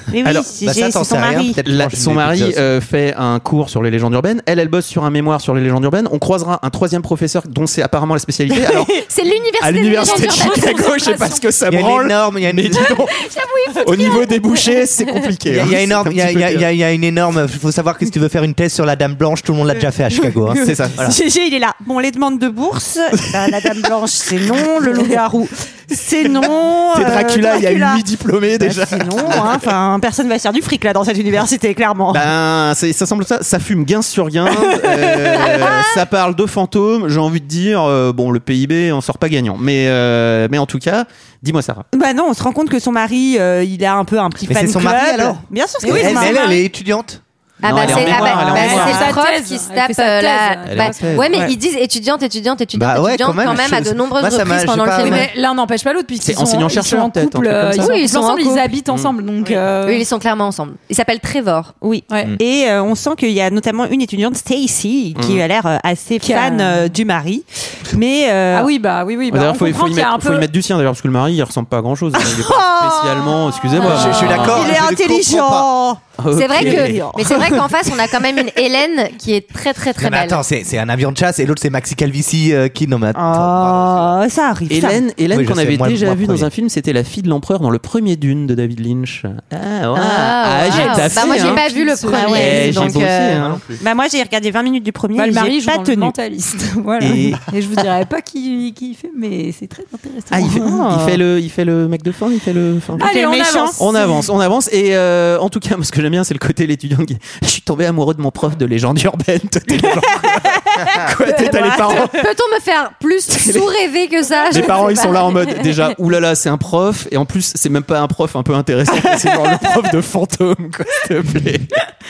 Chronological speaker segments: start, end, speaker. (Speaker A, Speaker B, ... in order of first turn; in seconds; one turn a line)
Speaker A: 0.1-1.6
Speaker B: 0.6-2.6
Speaker C: 1.6-8.9
Speaker D: 9.0-11.4
Speaker C: 9.6-13.2
Speaker E: 10.0-11.2
Speaker B: 11.7-13.0
Speaker D: 12.8-14.9
Speaker C: 13.8-16.7
Speaker B: 15.5-21.2
Speaker C: 20.6-21.0
Speaker A: 20.9-32.3
Speaker C: 26.9-29.6
Speaker C: 32.1-41.9
Speaker A: 34.6-35.5
Speaker D: 35.6-35.9
Speaker A: 41.9-46.5
Speaker B: 44.5-48.4
Speaker E: 45.8-46.6
Speaker D: 47.6-55.3
Speaker C: 47.6-49.1
Speaker E: 48.3-51.4
Speaker A: 48.4-49.1
Speaker C: 50.7-51.3
Speaker A: 51.3-51.5
Speaker B: 52.7-55.3
Speaker E: 55.0-60.0
Speaker C: 56.2-57.9
Speaker D: 57.8-58.7
Speaker D: 59.9-61.7
Speaker A: 61.8-68.7
Speaker E: 62.1-62.4
Speaker C: 65.2-65.4
Speaker E: 66.2-66.9
Speaker E: 68.5-70.5
Speaker C: 69.3-74.8
Speaker A: 72.2-76.0
Speaker D: 73.8-74.4
Speaker B: 73.8-75.7
Speaker C: 76.2-77.6
Speaker D: 76.3-80.4
Speaker A: 76.5-77.7
Speaker B: 80.0-84.1
Speaker A: 83.1-85.0
Speaker C: 84.7-93.7
Speaker B: 85.3-86.5
Speaker D: 90.0-93.5
Speaker E: 90.7-92.9
Speaker A: 92.1-92.9
Speaker A: 93.8-96.1
Speaker E: 95.2-100.8
Speaker C: 97.0-97.4
Speaker C: 100.3-103.1
Speaker A: 100.9-101.2
Speaker A: 103.0-103.8
Speaker E: 103.0-104.3
Speaker C: 103.8-112.2
Speaker A: 110.6-112.1
Speaker D: 111.2-115.9
Speaker C: 113.3-113.7
Speaker C: 114.5-121.7